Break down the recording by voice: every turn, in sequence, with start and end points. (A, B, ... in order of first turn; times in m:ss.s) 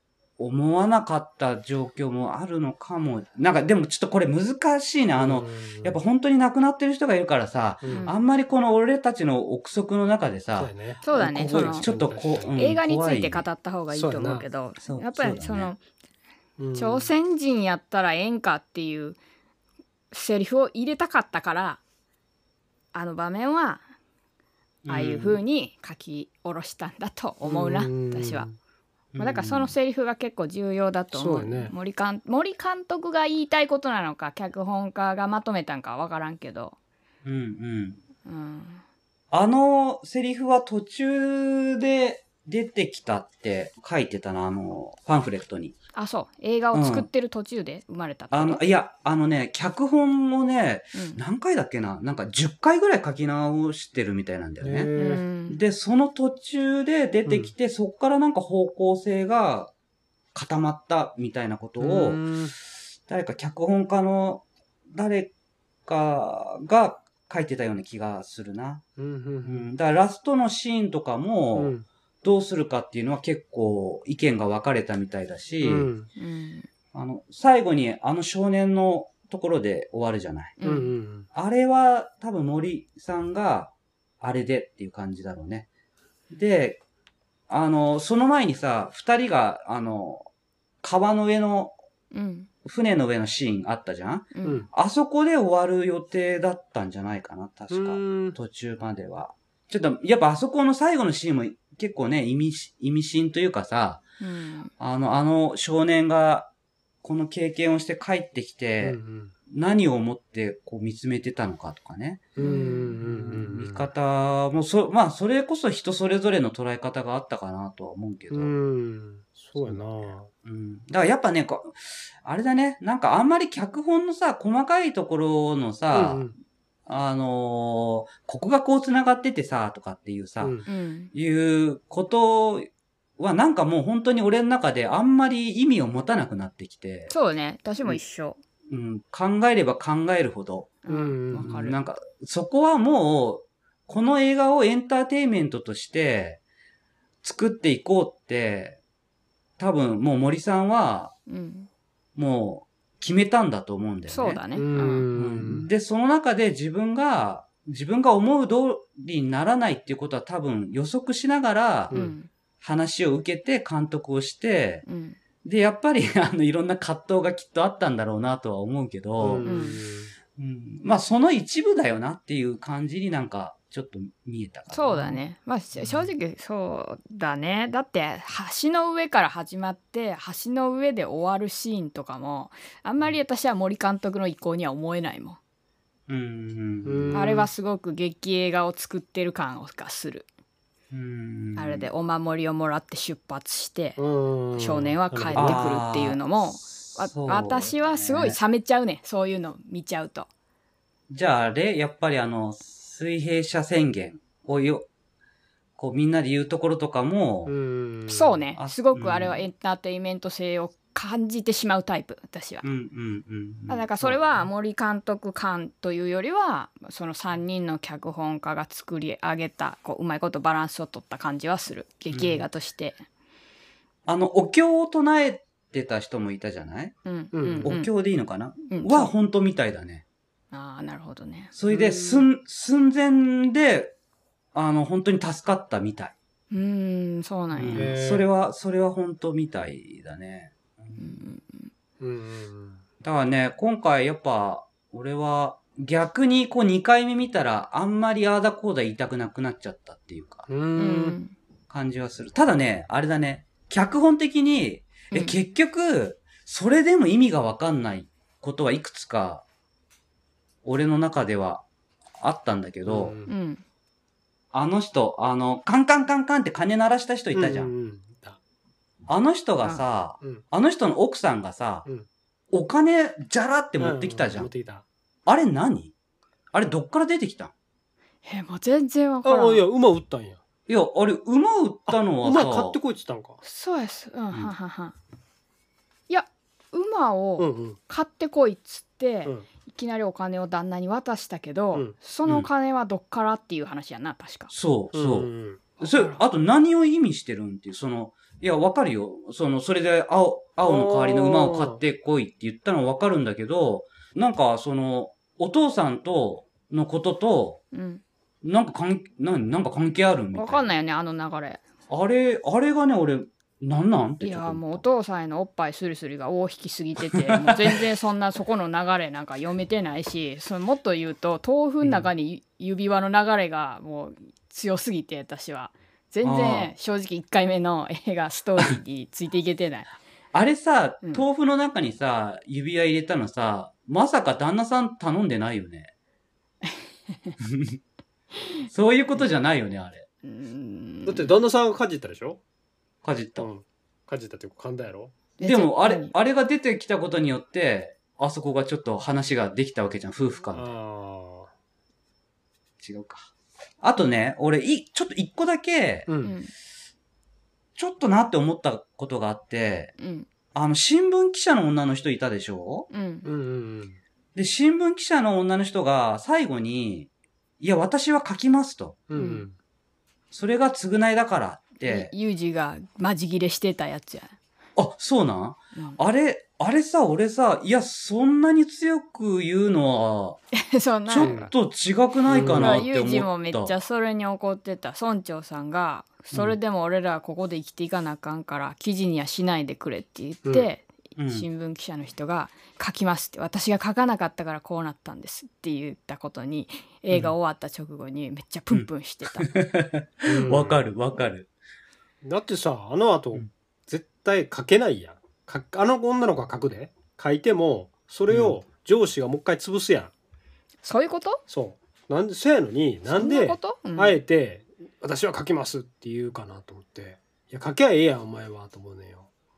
0:00.4-0:13.4 A
0:05.2-0:06.0 B
0:07.8-0:08.1 B
0:07.8-0:08.1 C
0:10.6-0:12.6 B
0:11.0-0:11.9 C
0:12.5-0:15.8 C
0:13.9-0:14.4 B
0:14.8-0:15.7 A
0:16.6-0:17.1 B
0:16.7-0:19.2 C
0:20.1-0:21.8 C
0:22.9-0:23.8 C
0:24.8-0:25.4 A
0:24.9-0:28.5 C
0:27.4-0:28.6 B
0:29.1-0:29.7 A
0:29.2-0:36.7 C
0:31.1-0:31.7 B
0:37.2-0:38.0 A
0:38.2-0:38.8 C
0:39.3-0:45.8 A
0:45.9-0:48.6 C
0:46.7-0:47.1 A
0:48.3-0:54.9 A
0:50.9-0:51.2 C
0:54.6-0:55.2 B
0:55.0-0:55.6 C
0:55.5-0:59.7 A
0:57.2-0:57.5 B
1:00.3-1:02.2 A
1:01.8-1:02.6 B
1:03.1-1:05.3 A
1:05.9-1:08.8 A
1:09.0-1:09.7 B
1:09.4-1:15.9 A
1:11.5-1:11.8 B
1:15.6-1:16.1 B
1:16.2-1:16.7 C
1:16.9-1:20.6 A
1:20.6-1:20.9 C
1:20.6-1:21.3 B
1:21.3-1:25.7 A
1:26.3-1:26.8 A
1:27.5-1:30.3 A
1:30.8-1:31.7 A
1:32.1-1:32.5 C
1:32.6-1:44.0 A
1:34.3-1:34.6 C
1:37.7-1:38.4 B
1:44.2-1:44.7 C
1:44.8-1:46.5 A
1:47.0-1:49.0 A
1:48.8-1:49.3 B
1:49.5-1:52.3 A
1:52.4-1:53.9 B
1:52.4-1:53.0 C
1:53.0-1:58.5 A
1:58.3-2:00.3 B
1:59.6-2:06.3 A
2:05.9-2:06.3 B
2:06.9-2:10.6 A
2:10.4-2:10.6 B
2:10.7-2:11.1 C
2:11.1-2:17.1 A
2:17.1-2:18.4 C
2:18.7-2:20.7 A
2:20.8-2:21.8 C
2:20.9-2:21.6 B
2:21.4-2:26.4 A
2:27.2-2:28.8 A
2:29.6-2:31.1 A
2:31.3-2:31.7 C
2:32.2-2:34.4 A
2:34.1-2:35.1 C
2:34.5-2:35.6 B
2:35.1-2:41.9 A
2:41.9-2:42.2 B
2:41.9-2:42.3 C
2:42.6-2:44.8 A
2:44.8-2:45.2 C
2:45.4-2:49.6 A
2:49.2-2:50.1 B
2:49.4-2:49.8 C
2:50.4-2:55.2 A
2:54.7-3:05.4 C
3:06.1-3:07.4 A
3:06.8-3:07.5 B
3:07.1-3:10.3 C
3:10.9-3:11.8 A
3:11.6-3:14.0 C
3:14.0-3:15.7 B
3:14.5-3:20.3 C
3:15.3-3:18.4 A
3:21.1-3:24.9 A
3:25.8-3:27.5 A
3:27.5-3:28.4 B
3:28.1-3:32.6 C
3:28.6-3:29.4 A
3:32.6-3:34.5 A
3:33.7-3:43.0 C
3:42.1-3:42.4 A
3:44.0-3:46.9 A
3:47.0-3:47.9 C
3:47.3-3:47.7 B
3:47.6-3:50.0 A
3:48.7-3:49.1 C
3:50.5-3:51.5 C
3:51.5-3:53.9 A
3:51.7-3:52.3 B
3:54.5-3:56.1 A
3:56.5-3:57.9 C
3:57.5-4:01.1 A
3:57.7-3:58.3 B
4:01.0-4:01.7 C
4:02.0-4:02.8 B
4:03.0-4:10.5 A
4:10.5-4:11.2 B
4:10.8-4:11.4 C
4:11.7-4:19.4 A
4:20.6-4:21.6 A
4:22.2-4:23.2 A
4:22.8-4:23.3 B
4:23.3-4:23.6 C
4:24.5-4:27.7 A
4:27.3-4:28.4 B
4:29.1-4:31.9 A
4:32.5-4:34.5 A
4:33.8-4:34.8 B
4:35.2-4:35.9 A
4:36.5-4:37.5 A
4:38.2-4:39.6 C
4:39.2-4:40.4 B
4:40.7-4:42.8 A
4:41.9-4:43.4 B
4:43.4-4:45.0 C
4:46.1-4:54.5 C
4:47.4-4:47.8 B
4:54.5-5:07.6 A
4:54.9-4:55.6 B
4:55.8-4:56.2 C
5:00.6-5:01.8 B
5:07.7-5:08.0 C
5:08.4-5:10.7 A
5:10.3-5:11.6 C
5:11.9-5:14.8 A
5:14.2-5:29.9 C
5:17.3-5:17.8 A
5:21.8-5:22.1 A
5:26.2-5:26.7 A
5:30.3-5:35.9 A
5:36.6-5:37.3 C
5:37.4-5:37.8 A
5:38.6-5:40.0 A
5:40.2-5:41.3 C
5:41.0-5:42.4 B
5:43.0-5:43.5 A
5:43.4-5:45.2 B
5:45.4-5:46.1 C
5:45.4-5:50.7 A
5:50.5-5:51.5 B
5:52.8-5:53.3 A
5:53.8-5:56.1 A
5:56.1-5:56.4 B
5:56.2-5:56.5 C
5:57.8-5:59.9 A
6:00.0-6:00.3 C
6:00.5-6:02.9 A
6:02.9-6:03.3 C
6:03.2-6:04.0 B
6:04.3-6:07.1 A
6:07.6-6:09.0 A
6:09.1-6:09.6 B
6:09.2-6:09.4 C
6:10.3-6:12.1 A
6:11.8-6:14.3 C
6:14.8-6:20.4 A
6:20.5-6:21.5 C
6:21.1-6:23.7 A
6:21.2-6:21.5 B
6:22.3-6:22.9 B
6:22.4-6:39.5 C
6:31.2-6:31.5 A
6:38.7-6:41.5 A
6:40.2-6:40.9 B
6:42.2-6:50.1 B
6:48.3-6:48.6 A
6:50.8-6:51.4 C
6:51.5-6:59.3 B
6:53.1-6:54.2 C